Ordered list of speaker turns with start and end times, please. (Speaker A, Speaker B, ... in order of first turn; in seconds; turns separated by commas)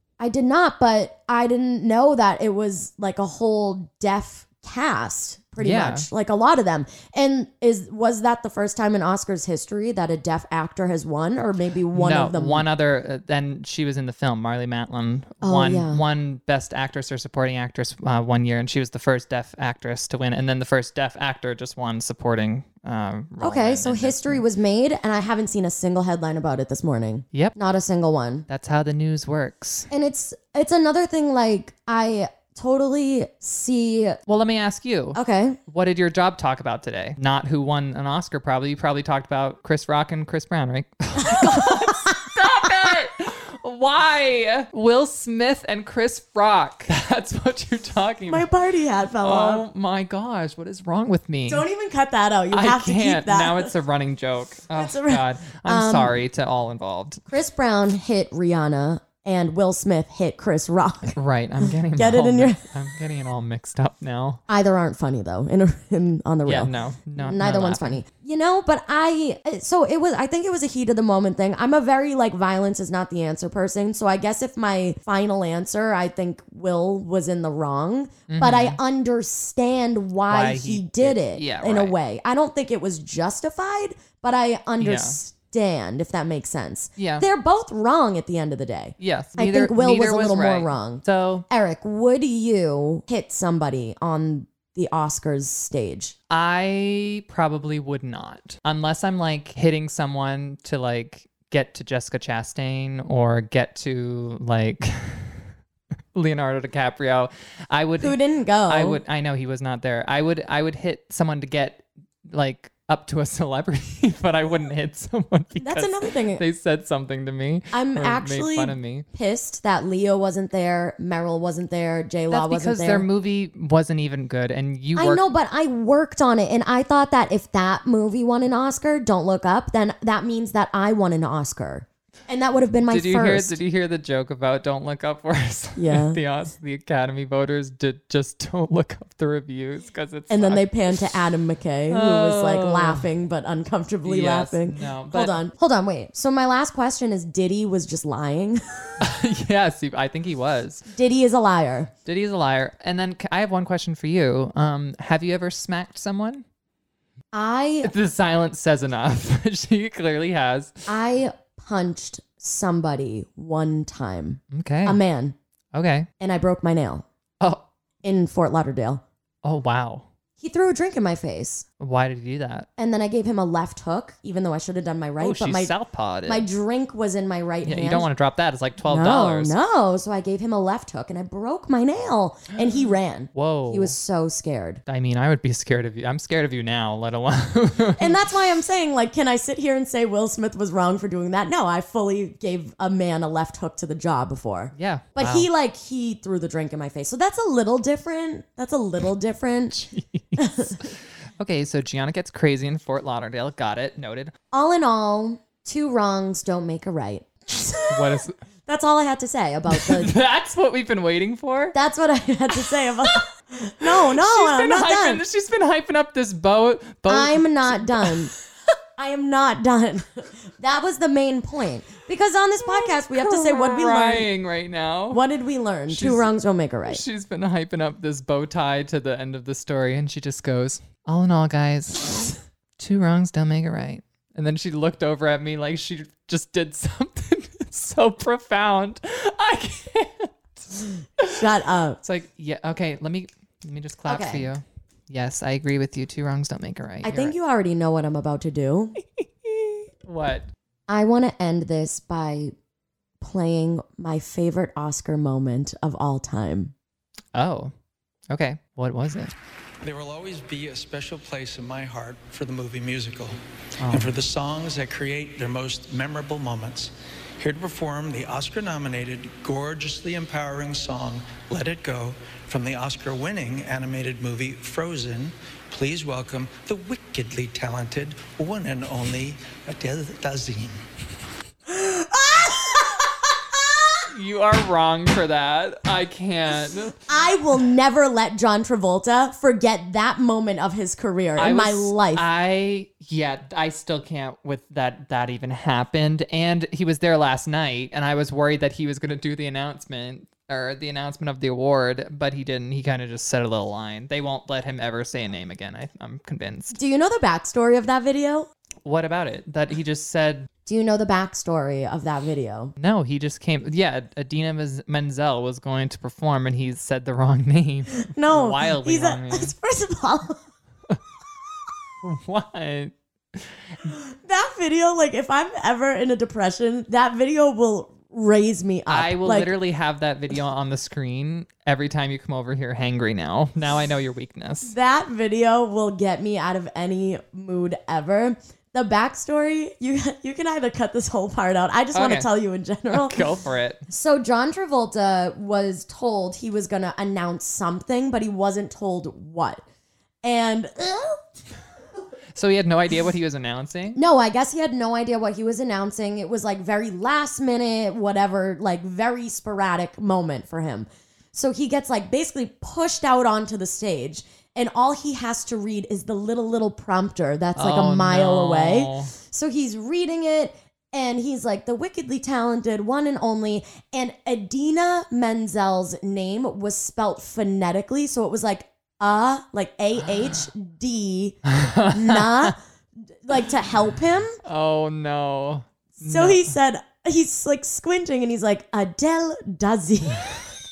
Speaker A: 0.2-12.7, Speaker B: 5.6-6.1, Speaker B: 11.9-24.4, Speaker A: 15.4-16.0, Speaker A: 23.4-28.5, Speaker B: 28.5-29.9, Speaker A: 29.9-34.2, Speaker B: 34.3-48.5, Speaker A: 35.1-35.6, Speaker A: 41.2-42.7, Speaker A: 48.3-49.6, Speaker B: 49.2-51.6, Speaker A: 51.5-53.7, Speaker B: 52.5-57.2, Speaker A: 54.8-56.1, Speaker A: 57.3-62.7, Speaker B: 61.1-64.4, Speaker A: 64.5-96.2, Speaker B: 66.5-68.0, Speaker B: 78.3-78.8, Speaker B: 80.3-82.0, Speaker B: 84.8-85.2, Speaker B: 87.0-87.2, Speaker B: 89.0-91.5, Speaker B: 96.3-105.5, Speaker B: 106.1-119.1, Speaker A: 108.0-109.0, Speaker A: 115.6-116.4, Speaker A: 117.7-123.1, Speaker B: 122.3-125.2, Speaker A: 125.0-133.6, Speaker B: 132.9-141.0, Speaker A: 135.8-136.2, Speaker A: 140.3-149.0, Speaker B: 141.9-143.1, Speaker B: 144.1-145.3, Speaker B: 149.0-150.9, Speaker A: 150.9-151.9, Speaker B: 152.1-156.4, Speaker A: 157.3-157.9, Speaker B: 157.8-160.9, Speaker A: 160.9-165.3, Speaker B: 164.5-165.0, Speaker B: 165.7-166.1, Speaker A: 166.2-167.1, Speaker B: 167.4-167.7, Speaker A: 168.0-169.0, Speaker B: 169.4-170.1, Speaker A: 170.4-171.7, Speaker B: 171.8-172.7, Speaker A: 172.8-175.7, Speaker B: 175.2-176.5, Speaker A: 176.3-178.1, Speaker B: 177.7-179.6, Speaker A: 178.8-184.8, Speaker B: 183.3-184.0, Speaker B: 184.9-188.2, Speaker A: 188.0-199.8, Speaker B: 194.8-195.5, Speaker B: 199.7-204.3, Speaker A: 200.4-200.8, Speaker A: 204.5-210.1, Speaker B: 207.9-208.3, Speaker B: 209.7-211.8, Speaker A: 211.7-215.2, Speaker B: 212.5-213.2, Speaker B: 213.8-218.3, Speaker A: 217.1-218.3, Speaker A: 219.0-224.3, Speaker B: 222.6-225.2, Speaker A: 225.1-227.0, Speaker B: 225.9-226.3, Speaker B: 226.9-241.4, Speaker A: 241.3-242.0, Speaker B: 242.0-247.3, Speaker A: 244.1-244.5, Speaker A: 247.0-248.9, Speaker B: 249.0-250.5, Speaker A: 250.9-252.5, Speaker A: 253.2-256.7, Speaker B: 257.3-257.7, Speaker B: 258.3-259.3, Speaker C: 259.8-263.3, Speaker B: 263.8-264.1, Speaker C: 263.9-280.8, Speaker A: 281.7-283.1, Speaker B: 284.1-287.0, Speaker A: 287.1-292.2, Speaker B: 291.4-306.8, Speaker A: 306.7-308.5, Speaker B: 308.8-310.5, Speaker A: 310.7-312.7, Speaker B: 312.8-319.6, Speaker A: 318.0-320.4, Speaker B: 322.0-323.6, Speaker A: 323.9-329.5, Speaker B: 328.9-334.7, Speaker A: 334.6-343.2, Speaker B: 341.9-342.3, Speaker B: 342.9-343.8, Speaker A: 343.9-349.6, Speaker A: 350.2-351.2, Speaker B: 352.3-354.0, Speaker A: 353.9-381.4, Speaker B: 367.6-369.1, Speaker B: 381.5-382.5, Speaker A: 381.9-382.6, Speaker A: 383.2-384.4, Speaker B: 384.4-386.5, Speaker A: 386.0-390.4